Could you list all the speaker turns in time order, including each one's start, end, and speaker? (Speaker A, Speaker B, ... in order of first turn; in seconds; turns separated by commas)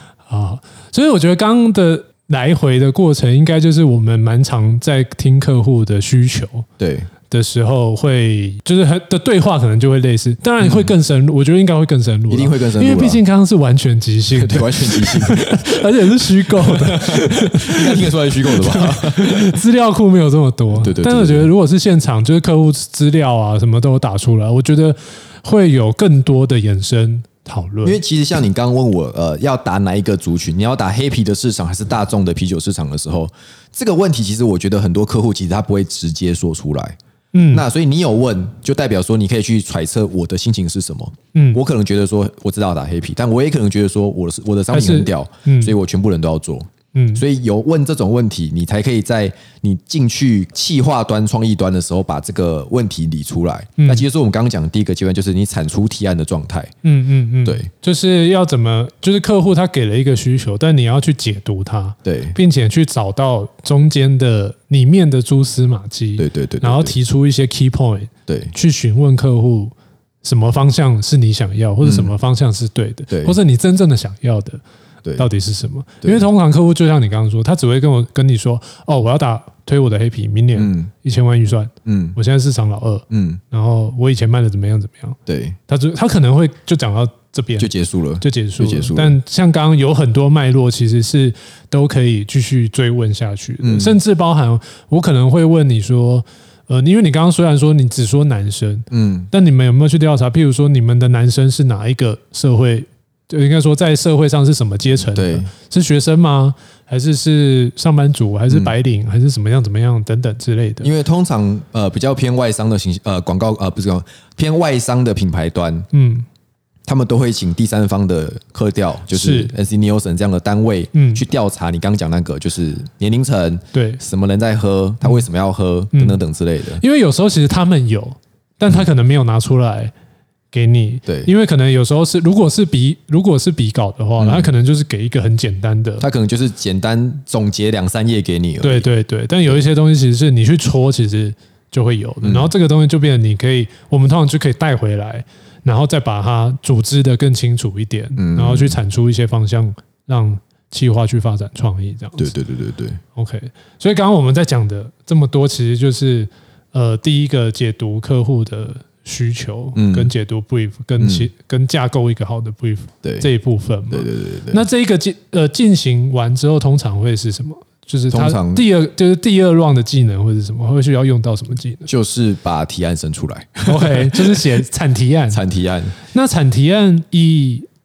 Speaker A: 0.3-6.7, Speaker B: 6.8-7.1, Speaker A: 7.3-28.0, Speaker B: 10.6-10.9, Speaker B: 12.3-13.2, Speaker B: 14.3-19.6, Speaker B: 20.8-21.5, Speaker B: 27.8-37.0, Speaker A: 37.3-37.7, Speaker B: 37.5-56.7, Speaker A: 41.3-41.6, Speaker A: 44.7-45.8, Speaker A: 46.9-47.2, Speaker A: 53.8-54.0, Speaker A: 56.8-74.6, Speaker B: 62.0-62.4, Speaker B: 66.2-67.0, Speaker B: 68.3-68.5, Speaker B: 71.8-72.1, Speaker B: 73.1-73.4, Speaker A: 75.2-87.7, Speaker B: 80.6-80.9, Speaker B: 81.8-82.2, Speaker B: 83.1-83.4, Speaker B: 85.3-85.6, Speaker B: 87.6-89.2, Speaker A: 88.2-110.9, Speaker B: 93.6-94.0, Speaker B: 98.9-99.3, Speaker B: 105.1-105.5, Speaker B: 108.5-108.7, Speaker B: 110.8-115.9, Speaker A: 115.9-116.3, Speaker B: 116.9-126.8, Speaker A: 119.1-119.5, Speaker A: 120.9-121.2, Speaker A: 123.7-124.0, Speaker A: 125.9-126.2, Speaker A: 126.8-129.9, Speaker A: 130.5-136.1, Speaker B: 134.2-134.5, Speaker B: 136.0-138.9, Speaker A: 138.6-152.3, Speaker B: 142.2-142.5, Speaker B: 148.2-148.8, Speaker B: 152.2-153.0, Speaker A: 153.2-171.9, Speaker B: 159.8-160.1, Speaker B: 161.0-161.3, Speaker B: 163.0-163.3, Speaker B: 163.9-164.7, Speaker B: 168.1-168.6, Speaker B: 171.9-174.5, Speaker A: 173.7-175.4, Speaker B: 175.3-176.0, Speaker A: 176.1-177.7